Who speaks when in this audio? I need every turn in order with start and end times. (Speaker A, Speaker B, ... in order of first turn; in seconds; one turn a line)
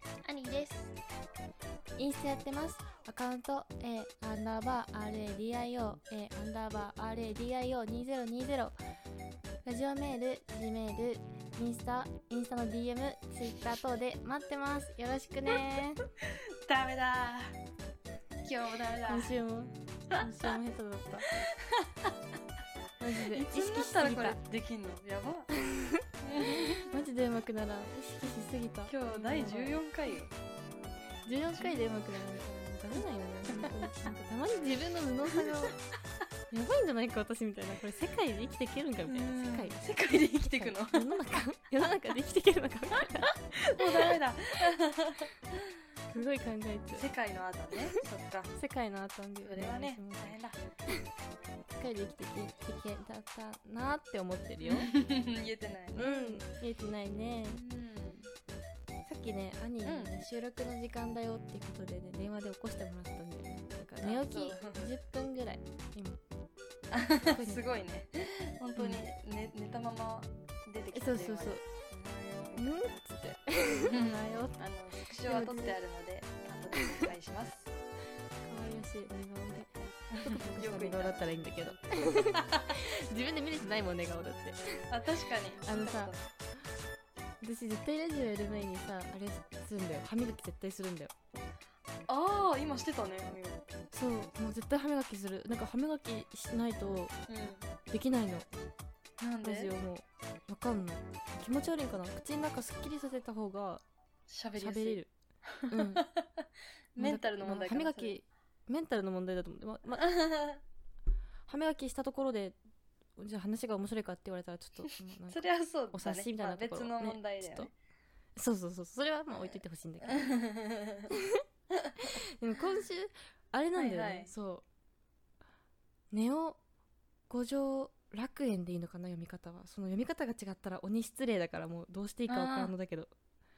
Speaker A: 0.2-0.9
Speaker B: 2.0-8.8
Speaker B: 9.7-16.0
Speaker A: 16.2-17.6
Speaker A: 18.4-19.3
Speaker B: 19.1-21.3
Speaker A: 20.1-20.5
Speaker A: 21.3-22.1
Speaker B: 23.0-24.4
Speaker A: 23.2-25.5
Speaker B: 25.5-29.8
Speaker A: 26.2-26.9
Speaker A: 28.9-30.3
Speaker B: 31.3-35.8
Speaker A: 31.4-31.8
Speaker B: 36.5-39.8
Speaker A: 39.1-41.1
Speaker B: 40.4-44.1
Speaker A: 43.2-45.6
Speaker B: 46.1-47.1
Speaker A: 47.0-48.5
Speaker B: 48.5-50.4
Speaker A: 49.4-50.6
Speaker B: 51.7-54.9
Speaker A: 54.6-56.5
Speaker B: 56.0-57.6
Speaker A: 57.5-58.3
Speaker B: 59.0-66.2
Speaker A: 59.9-60.1
Speaker A: 64.0-64.8
Speaker A: 66.9-72.8
Speaker B: 67.3-67.6
Speaker B: 68.8-69.0
Speaker B: 70.9-71.6
Speaker B: 72.6-74.6
Speaker A: 73.8-77.7
Speaker B: 75.2-75.8
Speaker B: 78.4-79.7
Speaker A: 80.1-82.8
Speaker B: 80.2-84.6
Speaker A: 84.9-86.2
Speaker B: 85.7-86.1
Speaker B: 87.4-91.1
Speaker A: 92.1-93.7
Speaker B: 93.9-97.1
Speaker A: 97.3-97.7
Speaker B: 97.9-98.5
Speaker A: 99.2-99.7
Speaker B: 99.4-103.8
Speaker A: 104.3-108.2
Speaker B: 104.6-105.1
Speaker B: 105.7-106.1
Speaker B: 107.0-110.0
Speaker A: 110.0-110.6
Speaker B: 111.5-112.6
Speaker B: 113.2-117.7
Speaker A: 115.3-117.7
Speaker B: 118.4-120.3
Speaker A: 119.3-121.1
Speaker B: 121.1-121.4
Speaker A: 121.7-122.2
Speaker B: 122.2-124.7
Speaker A: 123.8-124.3
Speaker B: 126.1-126.6
Speaker B: 127.3-133.1
Speaker A: 132.3-132.7